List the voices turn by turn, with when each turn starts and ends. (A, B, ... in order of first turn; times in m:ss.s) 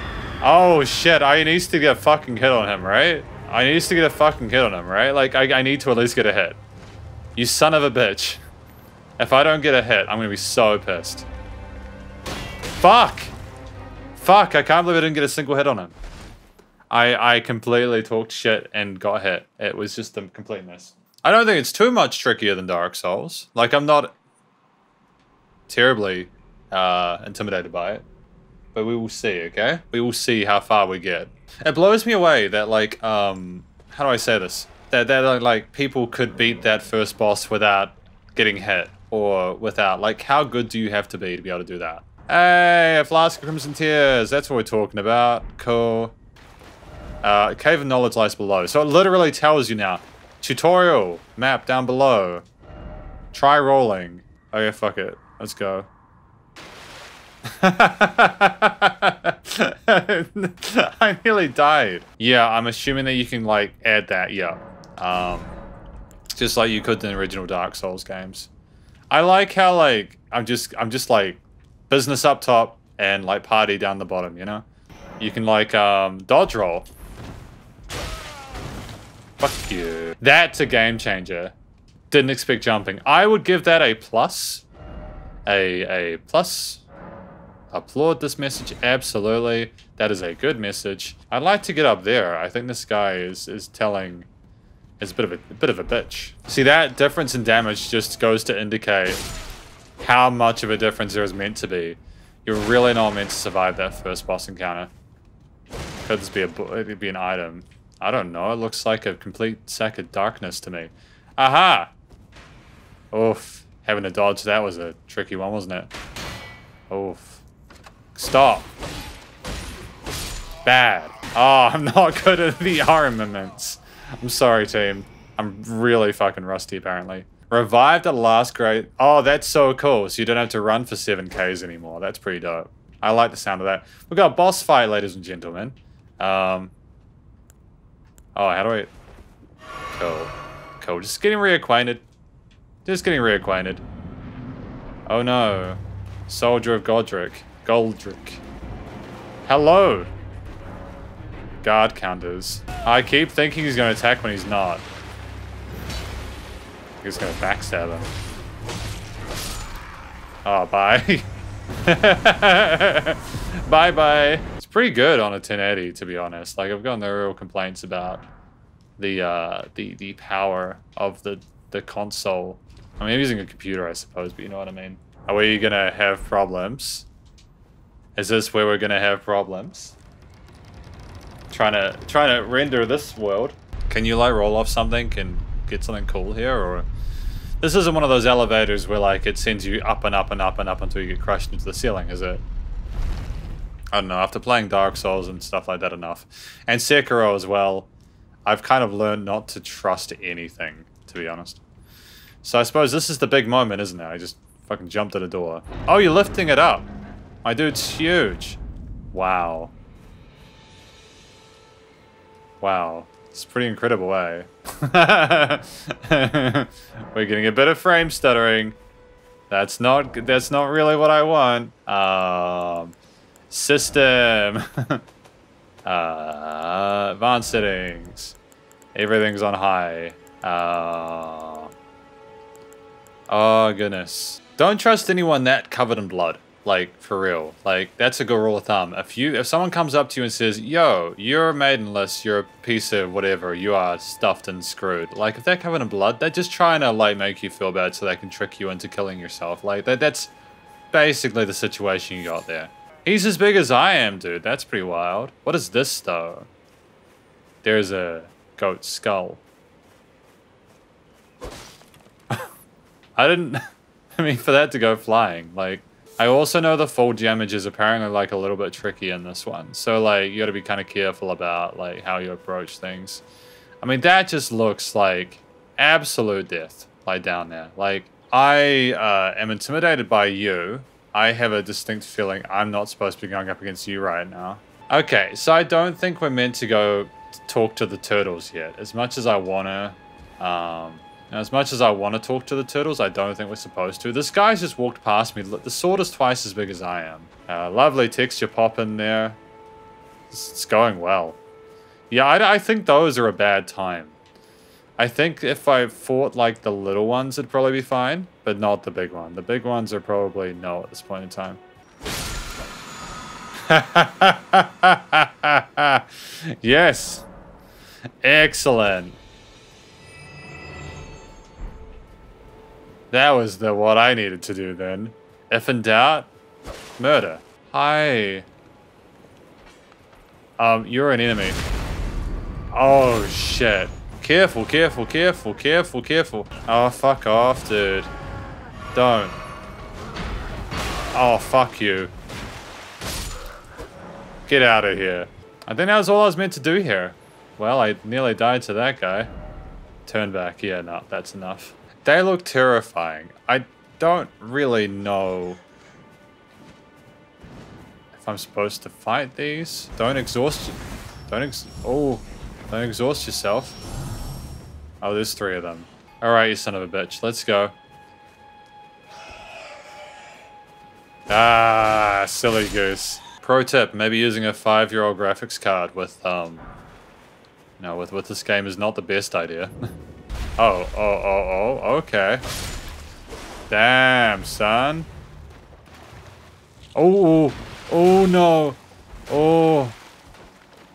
0:00.4-0:06.6 A
0:07.4-0:08.4 A
0:09.2-0:11.3 A
0:12.8-0:13.3 A
0:14.2-0:16.0 A
0:16.9-0:24.1 A
0:25.7-0:28.0 A
0:28.7-0:46.1 A
0:47.2-0:52.4 A
0:53.3-0:55.9 A
0:57.5-1:05.5 A
1:06.3-1:08.5 A
1:09.1-1:14.6 A
1:15.2-1:16.9 A
1:19.4-1:21.5 A
1:22.1-1:24.6 A
1:25.5-1:26.8 A
1:27.7-1:34.3 A
1:35.0-1:39.2 A
1:40.0-1:44.9 A
1:46.0-1:51.9 A
1:53.1-1:55.9 A
1:56.9-1:57.4 A
1:58.1-1:58.7 A
2:00.6-2:16.7 A
2:18.3-2:18.9 A
2:19.9-2:22.0 A
2:22.8-2:23.8 A
2:25.0-2:28.4 A
2:29.4-2:30.1 A
2:31.6-2:34.8 A
2:37.0-2:38.1 A
2:40.4-2:41.3 A
2:41.8-2:48.2 A
2:49.0-2:57.1 A
2:58.2-3:00.0 A
3:01.5-3:06.9 A
3:07.6-3:12.4 A
3:13.9-3:17.9 A
3:18.4-3:21.6 A
3:22.4-3:26.9 A
3:27.4-3:28.6 A
3:29.1-3:29.7 A
3:32.6-3:38.8 A
3:39.5-3:42.9 A
3:43.5-3:45.0 A
3:45.8-3:48.4 A
3:48.9-3:51.7 A
3:53.3-4:10.3 A
4:10.9-4:16.5 A
4:17.6-4:19.4 A
4:23.2-4:23.6 A
4:24.2-4:33.2 A
4:33.8-4:59.4 A
5:00.3-5:01.4 A
5:02.1-5:04.2 A
5:05.0-5:11.6 A
5:13.7-5:16.1 A
5:16.6-5:17.2 A
5:18.2-5:19.2 A
5:23.1-5:26.3 A
5:27.0-5:28.5 A
5:30.6-5:31.6 A
5:32.7-5:38.1 A
5:38.9-5:39.4 A
5:41.1-5:42.1 A
5:44.5-5:49.3 A
5:50.0-5:55.6 A
5:58.1-6:03.8 A
6:05.0-6:07.7 A
6:11.3-6:16.7 A
6:17.8-6:19.7 A
6:20.6-6:22.4 A
6:23.7-6:25.1 A
6:26.9-6:30.0 A